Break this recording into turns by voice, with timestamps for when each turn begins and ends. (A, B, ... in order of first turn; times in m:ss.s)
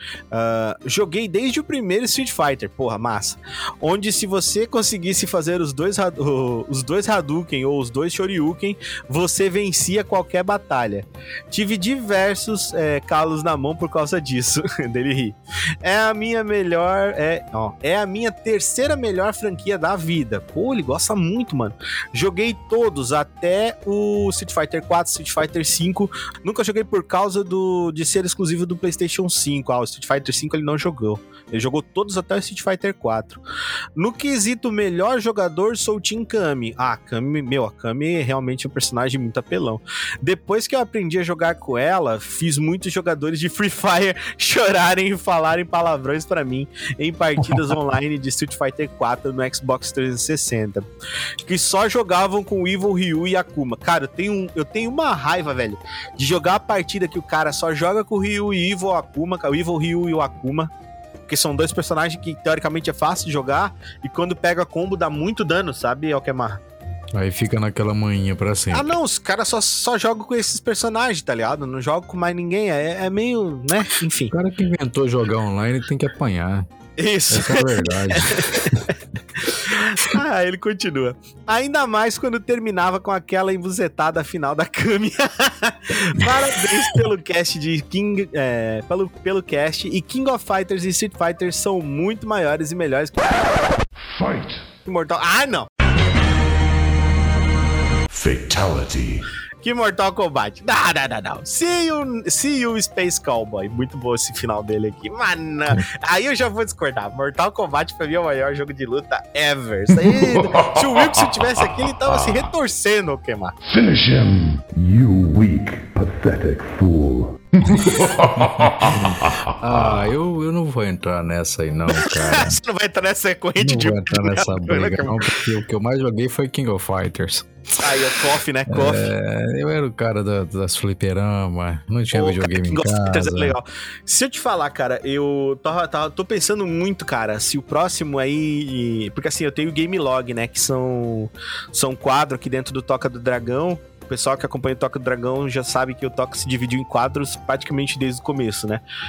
0:00.3-0:33.4 A
0:34.0-0:50.8 A
0:51.4-1:00.7 A
1:01.3-1:06.6 A
1:07.1-1:08.9 B
1:08.7-1:14.3 A
1:14.3-1:16.7 B
1:17.0-1:18.7 A
1:17.3-1:18.9 B
1:19.4-1:33.2 A
1:34.1-1:34.7 C
1:34.8-1:35.7 A
1:38.1-1:39.2 C
1:39.6-1:53.5 A
1:50.0-1:52.5 C
1:53.6-2:00.1 C
1:58.6-2:02.6 B
2:01.9-2:05.4 A
2:03.6-2:08.0 B
2:07.8-2:09.1 A
2:08.7-2:13.6 B
2:12.1-2:28.8 A